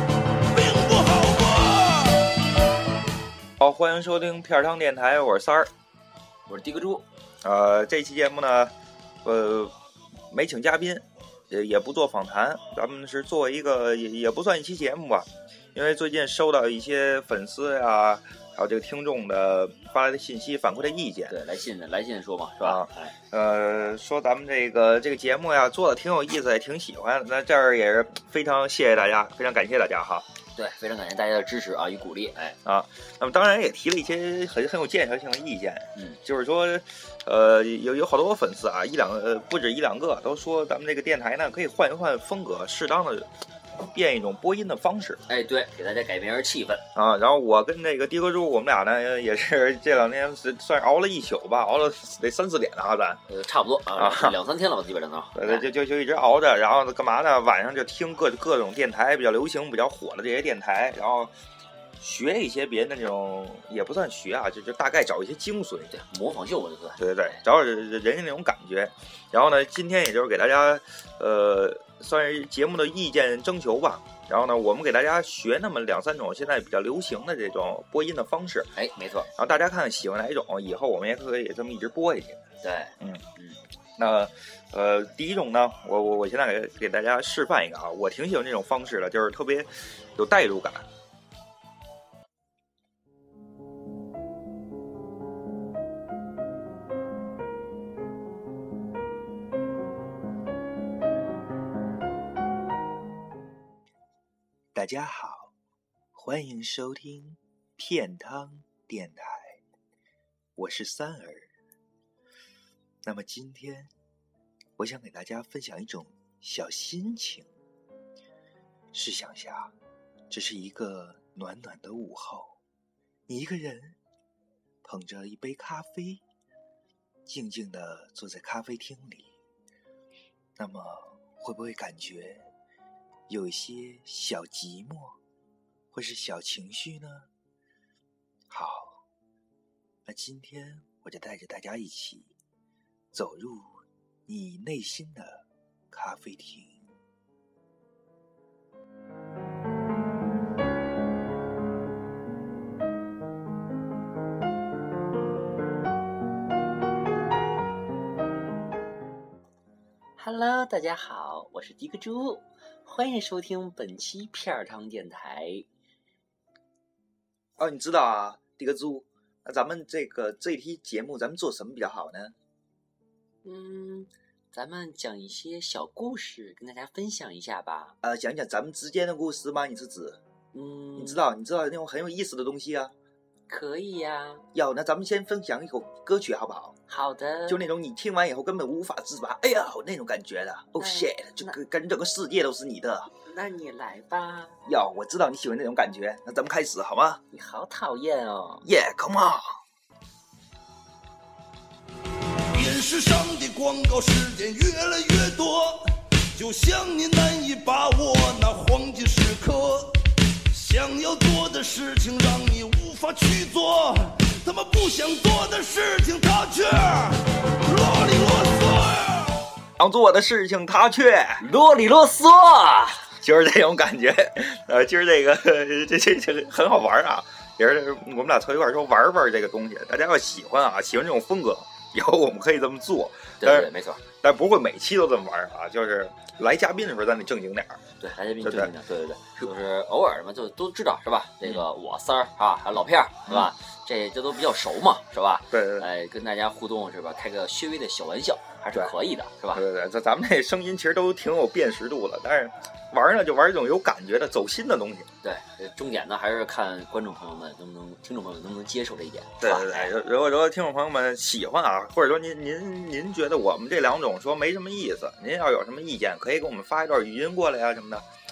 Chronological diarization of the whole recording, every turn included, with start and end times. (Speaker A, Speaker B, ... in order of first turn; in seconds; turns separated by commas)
Speaker A: 0.5-2.3, Speaker B: 3.6-5.7, Speaker C: 6.5-7.0, Speaker B: 7.4-8.7, Speaker B: 9.2-9.8, Speaker B: 10.3-21.4, Speaker C: 21.3-23.1, Speaker B: 22.6-30.2, Speaker C: 30.5-32.6, Speaker B: 32.6-43.3, Speaker B: 43.8-45.2, Speaker C: 45.3-46.8, Speaker B: 47.0-53.2, Speaker C: 53.3-55.7, Speaker B: 54.0-54.4, Speaker B: 55.3-61.3, Speaker B: 62.0-65.9, Speaker C: 65.9-67.4, Speaker B: 67.0-78.8, Speaker C: 78.8-79.3, Speaker B: 79.4-82.4, Speaker C: 82.6-83.6, Speaker B: 84.0-90.9, Speaker B: 104.7-105.5, Speaker B: 106.1-109.6, Speaker B: 110.6-111.5, Speaker B: 113.0-113.9, Speaker B: 114.8-117.5, Speaker B: 118.9-119.7, Speaker B: 120.3-122.6, Speaker B: 123.3-124.0, Speaker B: 124.8-126.2, Speaker B: 127.2-129.3, Speaker B: 130.6-132.5, Speaker B: 133.3-135.2, Speaker B: 135.9-137.3, Speaker B: 138.5-139.0, Speaker B: 140.1-142.3, Speaker B: 143.1-147.0, Speaker C: 160.2-165.7, Speaker B: 167.6-172.3, Speaker C: 173.4-178.0, Speaker B: 178.0-180.2, Speaker C: 180.5-181.2, Speaker B: 181.0-182.9, Speaker C: 183.5-184.4, Speaker B: 184.5-186.8, Speaker C: 186.9-187.6, Speaker B: 187.5-193.1, Speaker C: 190.8-191.6, Speaker C: 193.2-194.6, Speaker B: 194.7-197.2, Speaker C: 197.3-198.7, Speaker B: 198.6-199.6, Speaker A: 202.5-210.0, Speaker A: 210.5-219.4, Speaker B: 219.8-221.4, Speaker C: 221.4-223.1, Speaker B: 223.2-233.7, Speaker C: 233.4-234.0, Speaker B: 234.2-237.8, Speaker C: 238.0-249.6, Speaker B: 238.4-238.7, Speaker B: 243.3-243.5, Speaker B: 245.5-245.9, Speaker B: 249.5-255.1, Speaker C: 255.2-259.9, Speaker B: 259.4-268.0